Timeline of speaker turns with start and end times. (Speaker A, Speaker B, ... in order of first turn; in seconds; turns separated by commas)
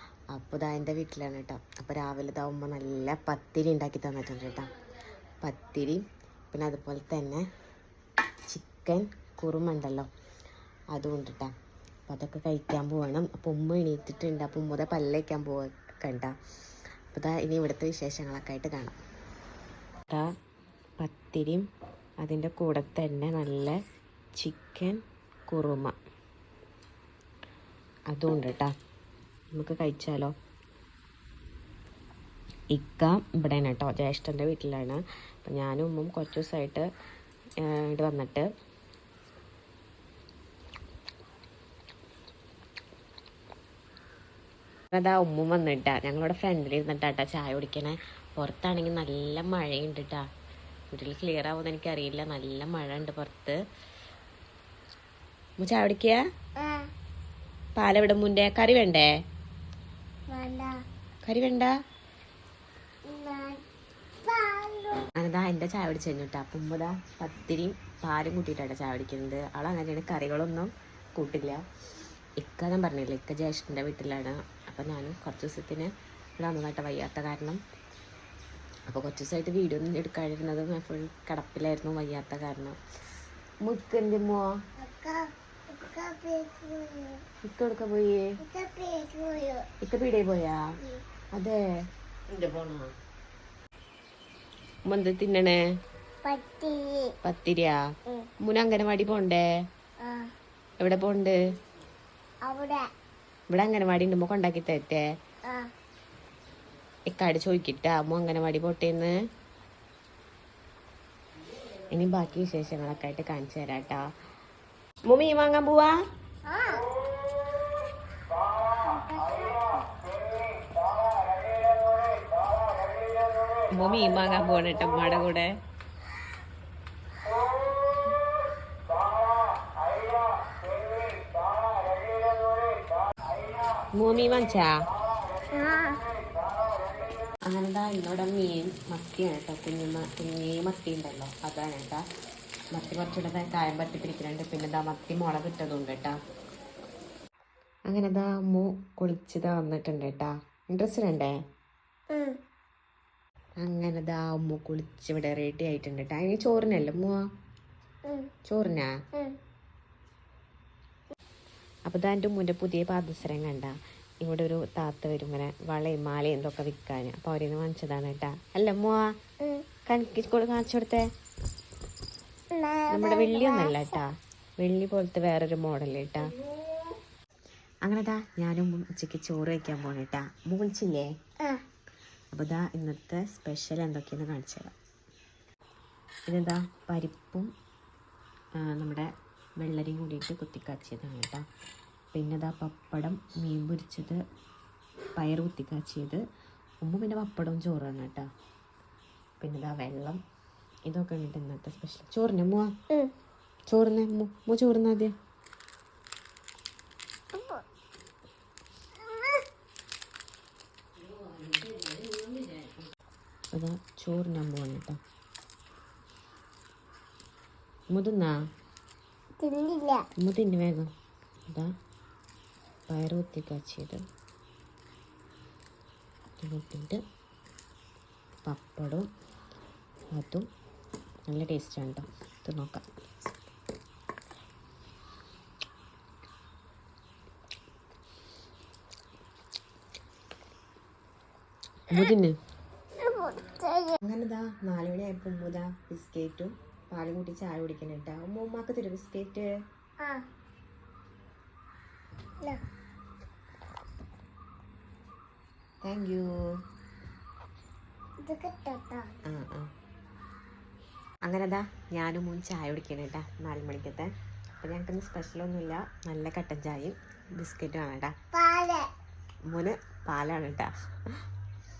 Speaker A: 0.3-4.7, Speaker A: 5.4-7.4, Speaker A: 8.5-10.1, Speaker A: 10.9-11.5, Speaker A: 12.1-16.3, Speaker A: 17.1-19.0, Speaker A: 21.0-21.6, Speaker A: 22.2-23.7, Speaker A: 24.4-25.9, Speaker A: 28.1-28.7, Speaker A: 29.5-30.3, Speaker A: 32.7-36.9, Speaker A: 37.6-38.5, Speaker A: 44.9-50.2, Speaker A: 50.9-53.6, Speaker A: 55.6-56.2, Speaker B: 56.6-56.8, Speaker A: 57.8-59.1, Speaker B: 60.3-60.8, Speaker A: 61.3-61.7, Speaker B: 63.1-63.6, Speaker B: 64.2-65.1, Speaker A: 65.2-71.6, Speaker A: 72.4-77.6, Speaker A: 78.9-82.8, Speaker A: 83.6-84.5, Speaker B: 84.8-87.2, Speaker A: 87.5-88.3, Speaker B: 88.4-89.7, Speaker A: 89.8-90.6, Speaker A: 92.3-92.9, Speaker A: 94.9-95.6, Speaker B: 96.2-97.1, Speaker A: 97.2-97.8, Speaker A: 98.4-99.4, Speaker B: 100.0-100.3, Speaker A: 100.8-101.4, Speaker B: 102.5-102.9, Speaker A: 103.5-105.0, Speaker A: 107.1-109.1, Speaker A: 111.9-114.0, Speaker A: 115.1-115.9, Speaker B: 116.5-116.8, Speaker B: 118.9-119.9, Speaker A: 123.8-125.5, Speaker A: 134.0-134.7, Speaker B: 135.5-136.0, Speaker A: 137.5-142.0, Speaker A: 142.7-146.2, Speaker A: 147.9-151.3, Speaker B: 152.1-152.4, Speaker A: 153.6-157.2, Speaker A: 158.5-158.9, Speaker A: 161.9-169.1, Speaker A: 169.9-171.1, Speaker B: 172.5-173.9, Speaker A: 172.9-176.3, Speaker A: 177.9-181.1, Speaker A: 182.3-184.7, Speaker A: 186.3-187.5, Speaker A: 188.7-189.1, Speaker A: 189.6-191.4, Speaker A: 192.2-194.2, Speaker A: 195.2-196.2, Speaker A: 196.8-198.3, Speaker A: 199.4-200.2, Speaker A: 200.9-202.7, Speaker A: 203.7-205.1, Speaker B: 207.3-207.6, Speaker B: 209.0-209.4, Speaker A: 211.0-212.7, Speaker A: 213.5-215.0, Speaker A: 217.9-218.3, Speaker B: 219.4-220.1, Speaker A: 220.2-220.9, Speaker A: 222.9-224.0, Speaker A: 226.4-227.0, Speaker A: 228.5-229.1, Speaker A: 230.2-230.4, Speaker A: 231.3-232.8, Speaker A: 241.9-242.4, Speaker B: 243.0-244.0, Speaker A: 244.0-249.5, Speaker A: 255.8-256.3, Speaker B: 258.2-259.1, Speaker A: 259.3-259.7, Speaker A: 261.3-264.1, Speaker A: 264.6-268.1, Speaker B: 268.3-268.9, Speaker A: 269.5-270.7